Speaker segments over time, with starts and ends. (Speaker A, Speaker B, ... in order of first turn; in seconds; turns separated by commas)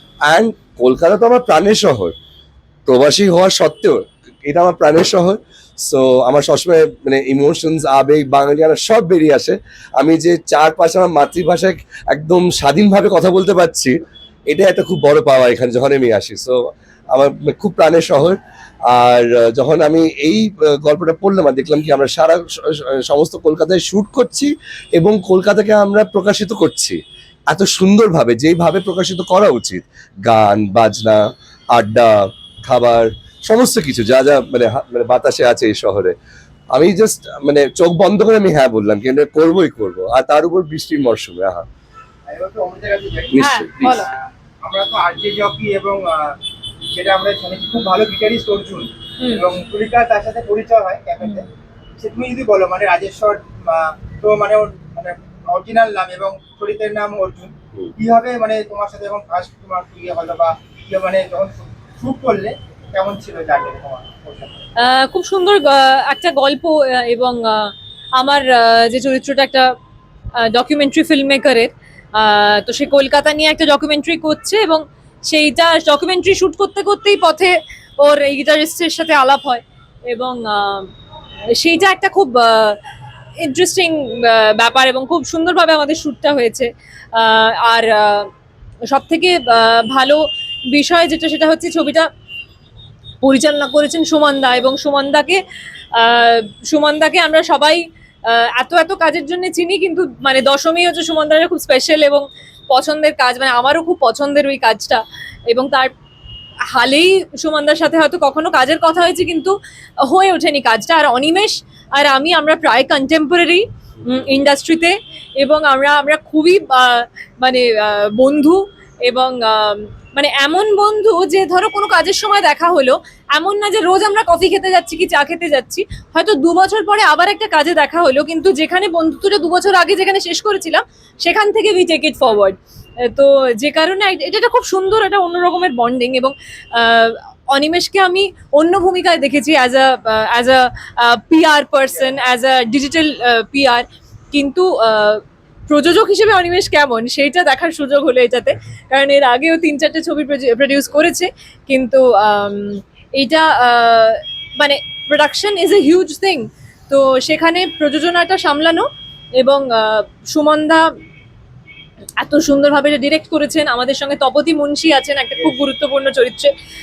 Speaker A: 0.3-2.1, Speaker A: 2.9-14.0, Speaker A: 14.5-16.6, Speaker A: 17.1-18.4, Speaker A: 18.9-27.0, Speaker A: 27.5-31.2, Speaker A: 31.7-36.1, Speaker A: 36.7-41.7, Speaker B: 42.3-46.4, Speaker A: 43.3-43.7, Speaker C: 43.4-44.1, Speaker B: 46.9-51.5, Speaker C: 49.2-49.5, Speaker B: 52.0-64.6, Speaker C: 64.8-69.7, Speaker C: 70.4-80.9, Speaker C: 81.6-82.8, Speaker C: 83.4-88.3, Speaker C: 88.9-92.1, Speaker C: 93.2-95.4, Speaker C: 96.0-105.9, Speaker C: 106.7-109.5, Speaker C: 110.0-158.9, Speaker A: 114.0-114.5, Speaker B: 141.9-142.2, Speaker C: 159.4-160.8, Speaker C: 162.2-166.5